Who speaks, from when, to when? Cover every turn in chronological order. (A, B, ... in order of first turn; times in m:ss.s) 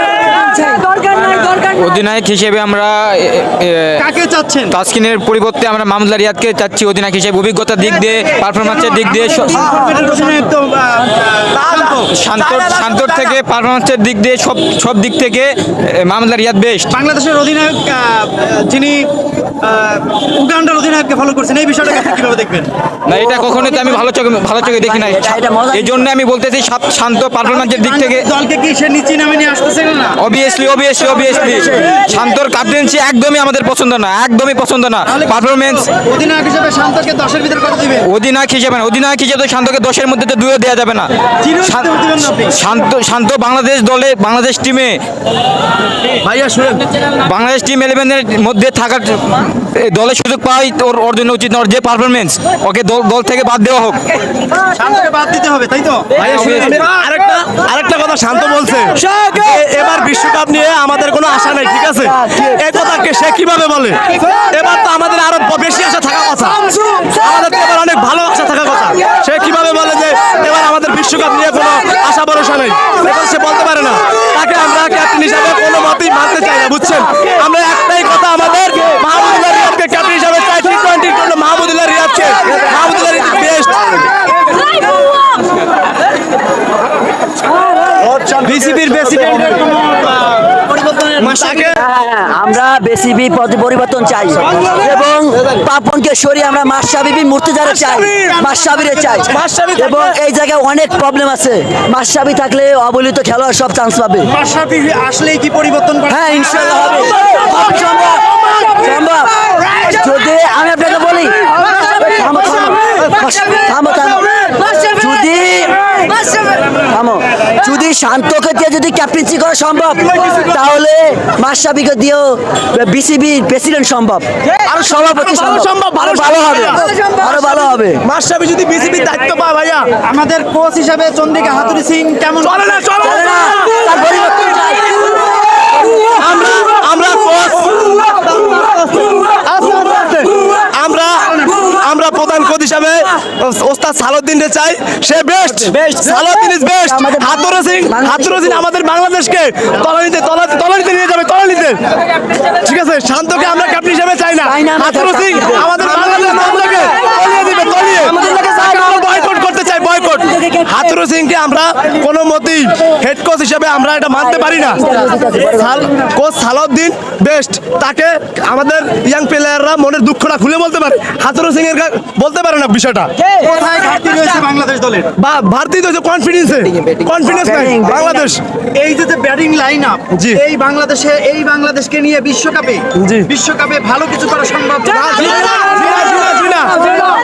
0:01.1-0:04.0 A
0:04.0-0:04.7 B
0:04.7-0:09.7 A
0:08.6-0:12.1 B
0:09.6-0:10.2 C
0:11.5-0:13.4 C
0:12.1-0:16.9 A
0:16.9-0:19.1 B
0:19.6-0:22.7 B
0:23.1-0:28.3 A
0:23.2-0:24.0 D
0:24.6-0:26.1 D
0:27.4-0:30.2 B
0:30.2-0:35.9 A
0:35.1-0:38.1 B
0:38.0-0:41.1 A
0:41.4-0:42.6 B
0:41.6-0:45.0 A
0:46.2-0:46.8 C
0:47.2-0:54.1 A
0:54.7-0:56.1 B
0:56.2-1:24.2 C
0:56.2-0:56.8 A
1:02.1-1:02.6 D
1:28.1-1:28.4 C
1:28.4-1:31.5 B
1:31.2-1:31.8 C
1:31.8-1:44.3 D
1:34.6-1:34.9 C
1:37.8-1:38.1 C
1:38.0-1:39.3 B
1:39.3-1:40.2 C
1:44.3-1:46.7 B
1:46.1-2:08.0 D
2:04.6-2:06.8 C
2:08.0-2:09.9 C
2:10.0-2:12.9 B
2:12.4-2:13.7 C
2:13.0-2:15.0 D
2:16.1-2:31.8 C
2:25.7-2:25.9 D
2:26.8-2:28.6 D
2:32.5-2:53.1 C
2:34.4-2:35.9 D
2:44.6-2:45.8 D
2:53.3-2:55.1 B
2:55.2-2:58.4 C
2:57.3-2:58.3 D
2:58.7-3:05.7 B
3:00.1-3:00.4 C
3:03.0-3:03.3 C
3:04.9-3:07.1 C